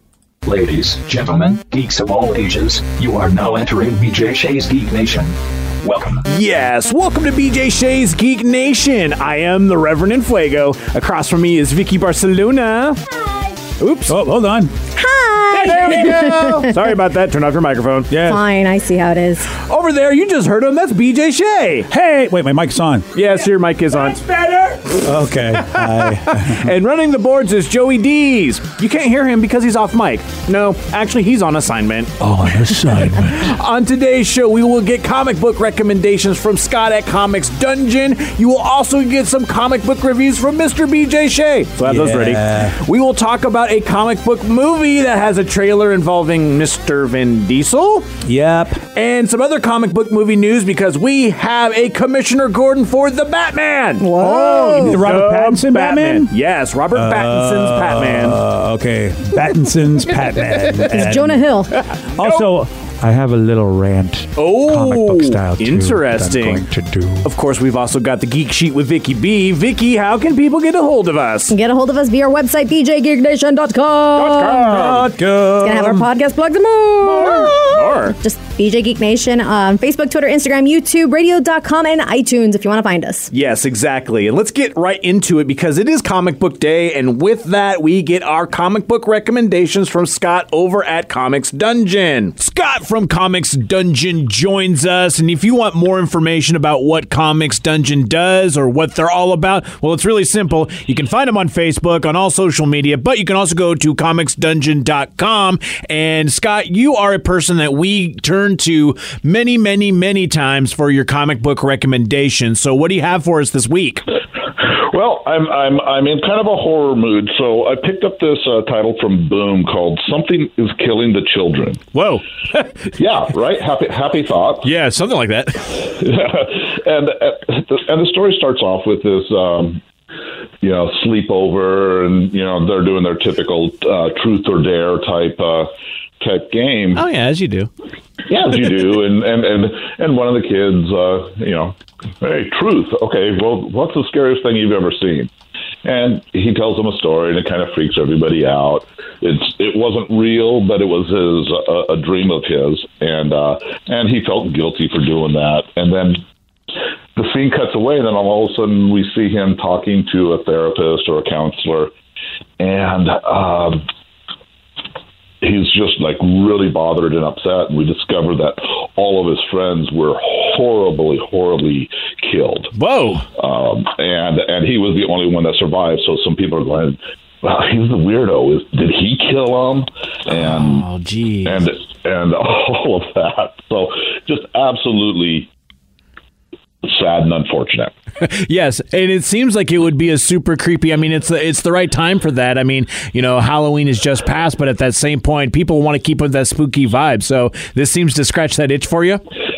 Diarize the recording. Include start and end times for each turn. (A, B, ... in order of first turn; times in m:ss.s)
0:00.4-0:06.2 A
0:06.2-0:13.0 B
0:13.8-0:14.2 B
0:14.1-0:14.7 C
0:15.0-0:16.7 D
0:15.5-0:18.1 B
0:18.1-0:18.4 C
0:18.2-0:19.5 D
0:19.5-0:21.9 B
0:21.9-0:23.1 C
0:23.1-0:25.0 B
0:24.8-0:26.7 C
0:26.2-0:32.2 B
0:32.2-0:33.5 C
0:33.2-0:48.1 B
0:41.8-0:42.8 C
0:48.2-0:48.8 C
0:48.9-0:58.4 B
0:54.0-0:55.0 D
0:54.4-0:56.3 C
0:56.9-1:01.5 C
1:00.8-1:01.8 D
1:01.9-1:02.4 B
1:02.2-1:07.3 C
1:04.4-1:06.6 B
1:07.2-1:11.5 B
1:11.5-1:14.9 D
1:14.1-1:16.0 B
1:14.9-1:16.0 C
1:15.4-1:23.3 D
1:17.0-1:18.2 B
1:23.3-1:54.0 B
1:54.6-2:01.9 E
2:01.9-2:02.7 B
2:03.0-2:04.7 E
2:04.6-2:05.9 B
2:05.8-2:09.8 E
2:10.6-2:15.7 E
2:16.2-2:17.0 E
2:17.0-2:17.7 B
2:18.3-2:25.3 E
2:25.8-2:36.2 E
2:37.1-2:41.9 E
2:42.6-2:43.8 E
2:45.4-2:52.7 E
2:52.7-2:53.2 B
2:53.4-3:00.9 E
3:00.3-3:01.7 B
3:01.4-3:05.5 E
3:06.8-3:07.9 E
3:08.2-3:19.2 B